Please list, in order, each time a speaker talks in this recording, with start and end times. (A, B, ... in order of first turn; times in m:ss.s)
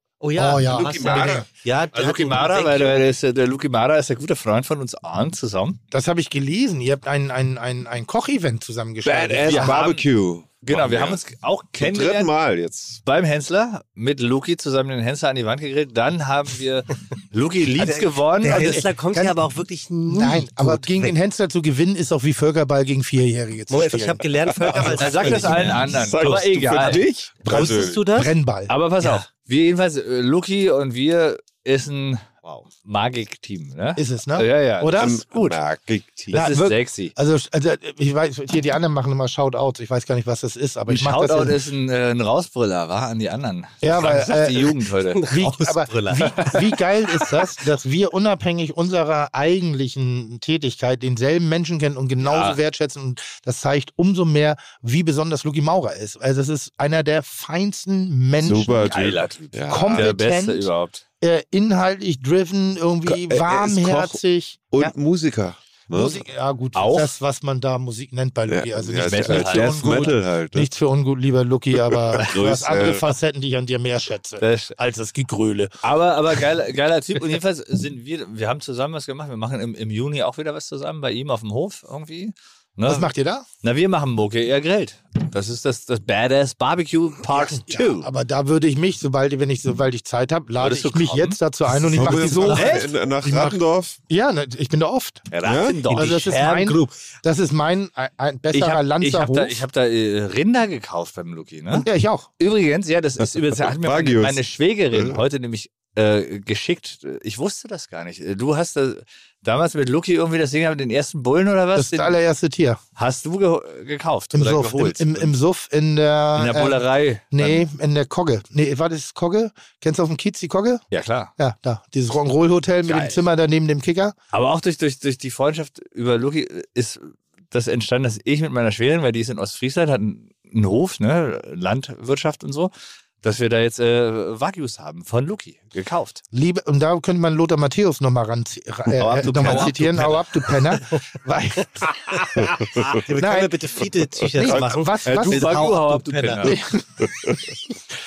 0:00.2-0:03.0 A
0:00.4-0:01.5 B
0:00.7-0:01.4 C
0:01.0-0:01.4 D
0:01.9-0:05.8 D
0:05.9-0:09.8 B
0:09.0-0:11.2 C
0:09.4-0:10.0 D
0:10.6-0:12.3 D
0:11.8-0:13.0 C
0:13.0-0:18.8 D
0:17.8-0:21.1 A
0:18.4-0:19.4 B
0:20.1-0:24.9 B
0:23.7-0:28.3 A
0:24.6-0:28.0 C
0:24.9-0:27.1 D
0:27.4-0:28.7 B
0:28.7-0:35.6 D
0:29.0-0:29.2 A
0:34.0-0:35.2 B
0:35.0-0:36.4 C
0:36.3-0:37.1 D
0:36.3-0:41.6 B
0:40.9-0:45.3 D
0:43.8-0:58.9 B
0:45.1-0:46.6 A
0:52.2-0:52.6 D
0:58.4-1:00.1 C
0:58.8-1:01.0 D
0:59.7-1:00.7 B
1:01.2-1:04.9 B
1:03.1-1:04.2 C
1:04.7-1:06.2 C
1:05.9-1:15.8 B
1:06.7-1:07.1 D
1:08.5-1:10.7 C
1:09.0-1:10.2 D
1:11.9-1:13.0 C
1:14.4-1:14.8 D
1:15.8-1:23.1 D
1:22.8-1:23.4 B
1:23.6-1:28.1 D
1:27.3-1:35.3 B
1:30.6-1:31.4 D
1:31.9-1:34.0 C
1:32.5-1:32.9 D
1:35.3-1:36.3 D
1:35.4-1:35.8 C
1:35.9-1:37.0 A
1:35.9-1:39.6 B
1:38.5-1:41.9 D
1:41.7-1:42.3 B
1:42.4-1:52.2 D
1:43.7-1:45.2 C
1:51.8-1:52.8 B
1:53.0-1:55.3 D
1:54.3-2:00.8 B
1:56.4-1:57.6 D
2:00.9-2:01.3 D
2:01.4-2:04.1 B
2:02.8-2:03.2 D
2:04.3-2:16.2 D
2:16.3-2:23.6 B
2:19.0-2:20.3 D
2:22.8-2:26.5 A
2:24.4-2:25.5 B
2:24.4-2:24.7 C
2:25.1-2:26.6 D
2:26.4-2:27.7 B
2:27.0-2:27.5 C